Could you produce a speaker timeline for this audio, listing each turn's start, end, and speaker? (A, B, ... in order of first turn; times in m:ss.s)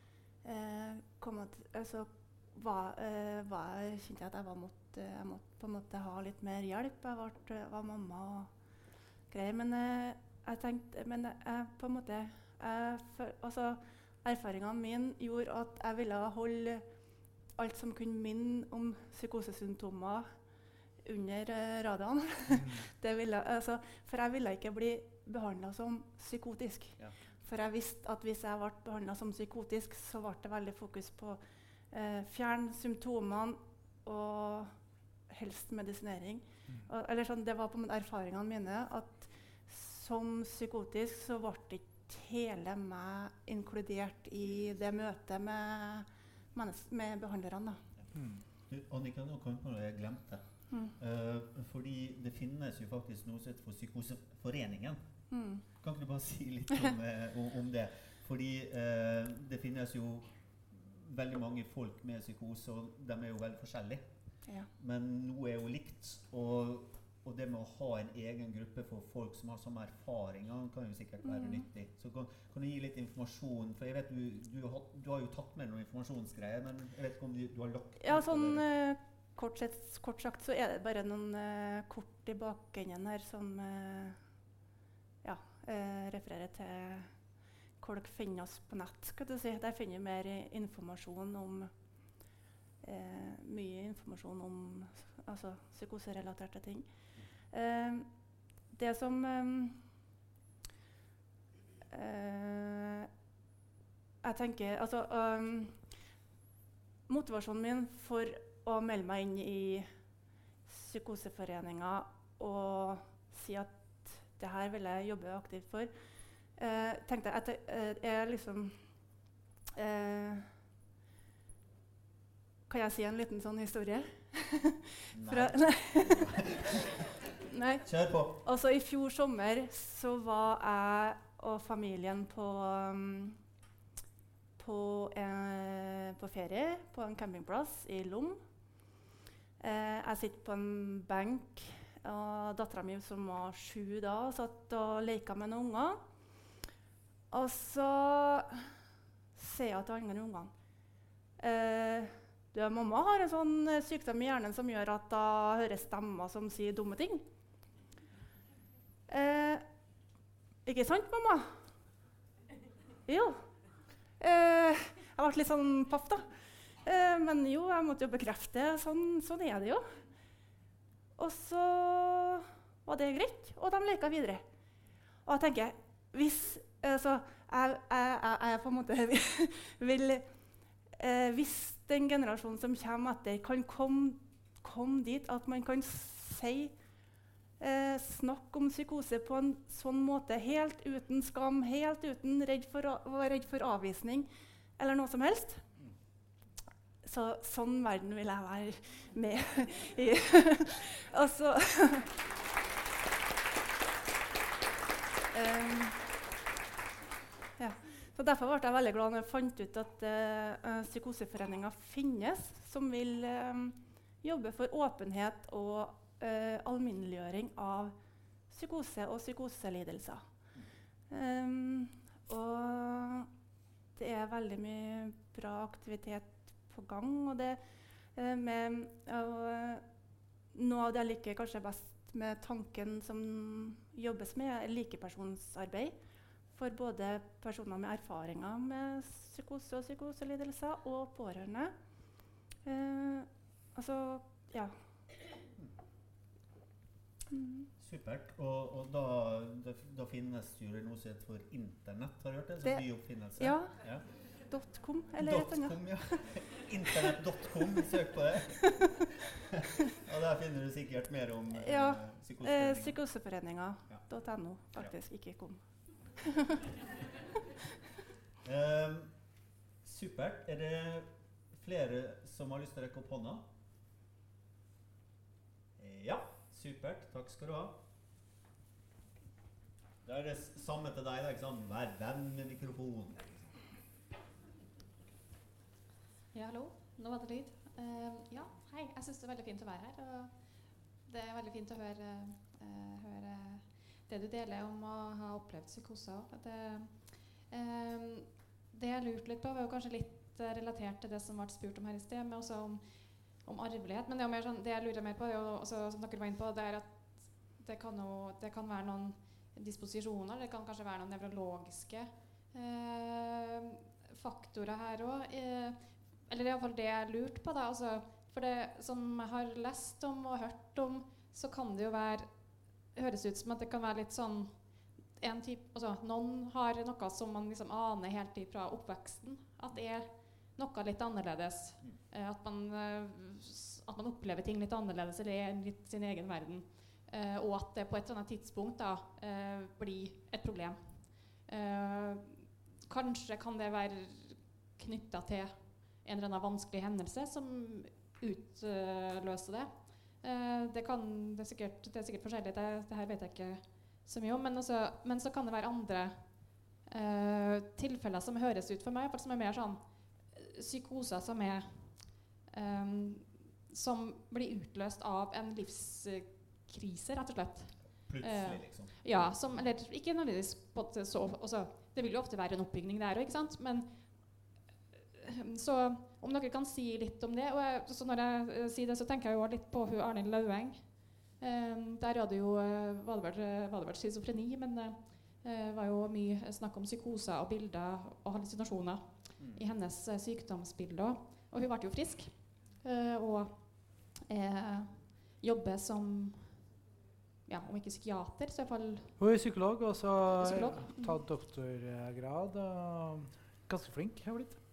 0:00.4-0:08.5 A
0:09.3-0:16.8 A
0:17.6-0:20.3 A
0:21.0-0:34.8 A
0:22.6-0:22.8 B
0:35.3-0:47.8 A
0:48.1-0:48.4 B
0:48.7-0:55.0 C
0:55.3-0:55.6 A
0:55.8-1:04.1 C
1:04.8-1:18.6 C
1:11.2-1:11.6 A
1:18.0-1:24.2 A
1:25.2-1:27.2 A
1:27.8-1:31.7 A
1:32.8-1:36.9 A
1:37.5-1:38.1 A
1:38.7-1:39.9 A
1:41.9-1:43.1 A
1:44.2-1:46.0 A
1:47.1-1:49.9 A
1:50.6-1:55.9 A
1:56.5-1:58.8 A
1:59.7-2:00.5 A
2:02.7-2:13.4 A
2:05.1-2:06.8 C
2:07.8-2:08.4 C
2:14.6-2:18.4 A
2:19.6-2:26.0 A
2:27.3-2:28.7 A
2:29.4-2:30.5 A
2:31.4-2:37.2 A
2:39.1-2:39.6 A
2:40.6-2:41.6 A
2:43.1-2:43.4 A
2:44.2-2:46.3 A
2:46.8-2:49.9 A
2:51.2-2:54.4 A
2:55.2-3:00.3 A
3:00.9-3:06.7 A
3:07.6-3:15.7 A
3:17.0-3:22.3 A
3:25.3-3:26.0 A
3:27.6-3:38.0 A
3:38.5-3:40.3 A
3:41.1-3:43.3 A
3:44.0-3:47.6 A
3:48.1-3:49.8 A
3:50.5-3:56.0 A
3:56.5-4:01.7 A
4:02.6-4:04.8 A
4:07.3-4:07.7 A
4:07.8-4:14.0 C
4:12.6-4:13.8 A
4:14.5-4:17.2 A
4:15.1-4:18.9 C
4:19.5-4:23.0 C
4:21.5-4:25.6 A
4:26.2-4:26.6 A
4:28.4-4:29.2 C
4:29.8-4:33.5 C
4:35.8-4:37.8 C
4:40.0-4:43.5 C
4:46.3-6:14.6 D
6:07.8-6:09.7 C
6:15.2-6:36.9 D
6:29.4-6:29.7 C
6:37.4-6:39.2 D
6:39.2-6:44.6 B
6:40.3-6:41.0 D